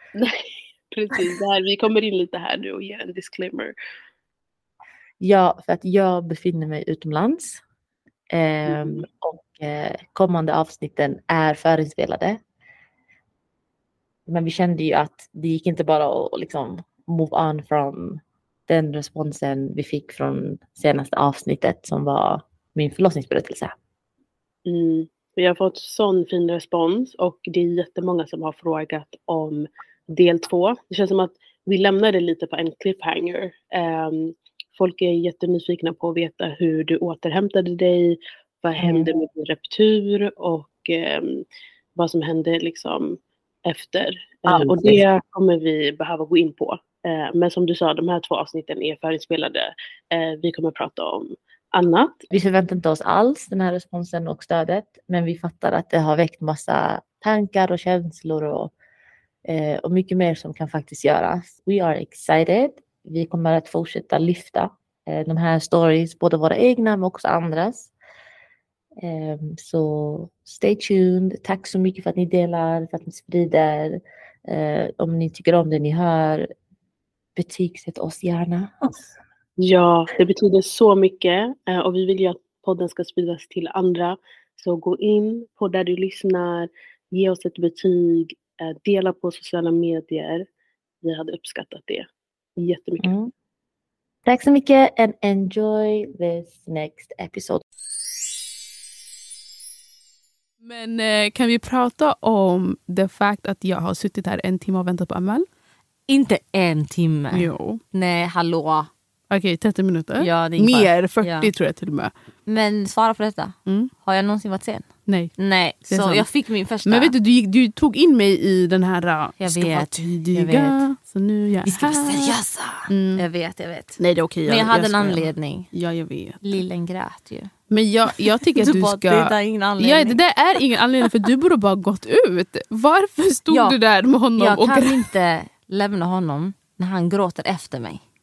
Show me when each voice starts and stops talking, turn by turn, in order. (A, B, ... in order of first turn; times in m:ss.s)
0:00.2-0:03.7 A
0:05.2-0:07.6 B
0:08.3-0:12.4 B
0:08.7-0:09.0 A
0:14.3-0:23.7 B
0:24.6-0:41.4 A
0:38.8-0:39.1 B
0:42.0-0:52.2 A
0:44.5-0:45.0 B
0:52.3-0:58.7 B
0:59.4-1:07.9 B
1:09.0-1:16.5 B
1:17.4-1:18.9 B
1:19.6-1:30.4 A
1:31.0-1:33.1 A
1:33.0-1:33.3 B
1:34.2-1:37.6 B
1:40.6-1:45.5 C
1:46.1-1:48.9 D
1:47.3-1:47.8 C
1:49.3-1:52.1 C
1:50.2-1:51.5 D
1:52.4-1:53.5 D
1:54.0-1:57.1 D
1:55.1-1:55.3 C
1:55.9-1:56.3 C
1:56.8-2:03.2 C
1:59.4-2:00.8 D
2:01.6-2:05.7 D
2:04.0-2:06.4 C
2:06.4-2:07.5 D
2:07.7-2:15.0 C
2:08.2-2:10.2 D
2:13.5-2:13.8 D
2:14.4-2:18.0 D